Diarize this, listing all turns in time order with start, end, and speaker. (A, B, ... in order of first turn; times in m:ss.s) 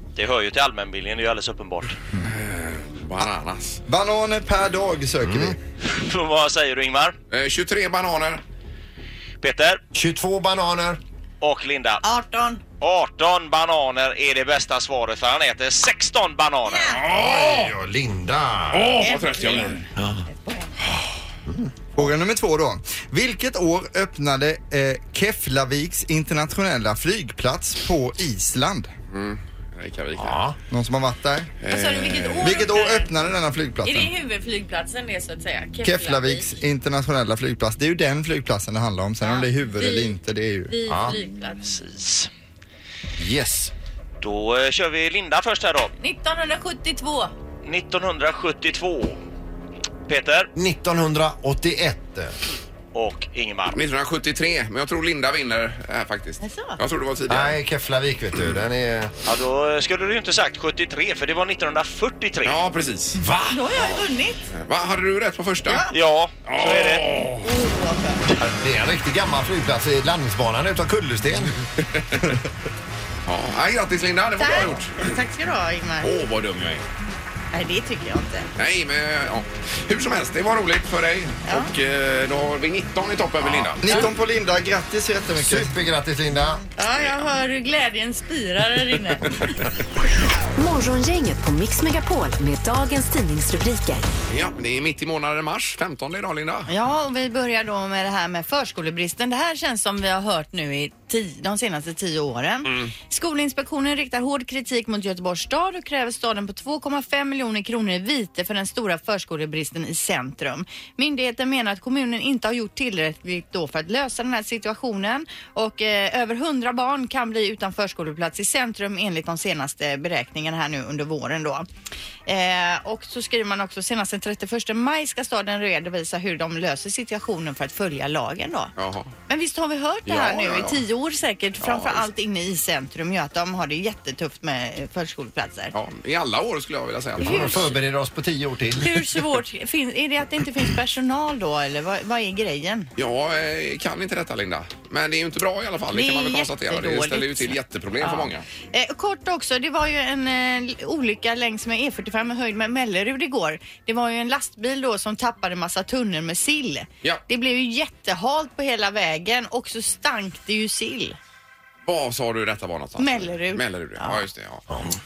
0:00.2-0:02.0 A
0:02.2-0:03.8 B
0:03.9-0:05.6 C
0:05.2-0:05.6 D
0:05.9-0:07.2 A
0:07.3-0:08.4 B
0:09.4-0:09.8 A
0:09.9-0:11.0 D
0:11.4-0:12.0 A
0:12.0-0:12.6 E
0:12.8-0:17.0 A
0:16.7-0:17.0 E
0:16.9-0:17.7 B
0:17.1-0:19.1 D
0:18.7-0:19.8 B
0:19.0-0:20.8 E
0:20.0-0:20.2 D
0:21.5-0:21.7 D
0:22.0-0:28.9 C
0:29.1-0:30.4 B
0:30.2-0:30.6 D
0:30.7-0:31.5 C
0:31.6-0:32.7 B
0:31.7-0:33.1 E
0:32.4-0:34.1 C
0:33.8-0:36.6 E
0:35.8-0:40.7 C
0:39.2-0:40.2 E
0:40.7-0:41.8 E
0:40.9-0:41.2 D
0:41.8-0:42.3 A
0:43.2-0:43.7 D
0:44.2-0:45.9 A
0:46.0-0:47.3 E
0:47.6-0:49.2 A
0:50.1-0:50.5 A
0:50.6-0:52.4 D
0:52.9-0:53.8 A
0:53.7-0:57.6 B
0:56.4-0:56.8 E
0:57.3-0:59.1 D
0:59.3-1:02.6 A
1:02.4-1:03.2 B
1:03.2-1:03.7 D
1:03.5-1:04.5 E
1:04.5-1:05.9 B
1:05.7-1:05.9 E
1:05.9-1:07.1 A
1:06.4-1:07.5 B
1:07.4-1:08.3 E
1:08.4-1:11.6 D
1:11.8-1:12.3 B
1:13.3-1:15.0 B
1:14.4-1:16.1 E
1:16.0-1:16.8 B
1:17.5-1:18.5 E
1:18.6-1:23.8 B
1:21.4-1:21.7 E
1:23.8-1:25.7 C
1:25.4-1:26.6 D
1:26.8-1:29.6 E
1:27.0-1:27.3 B
1:30.6-1:34.1 F
1:34.3-1:36.7 B
1:36.7-2:01.7 E
1:42.7-1:42.9 B
2:02.3-2:08.7 E
2:08.8-2:09.2 B
2:09.3-2:15.7 E
2:10.1-2:10.8 B
2:11.6-2:12.1 B
2:15.7-2:17.7 B
2:17.2-2:19.0 D
2:17.2-2:17.7 E
2:18.8-2:22.9 E
2:23.0-2:28.4 B
2:25.9-2:41.2 E
2:41.8-2:44.8 B
2:43.0-2:44.2 E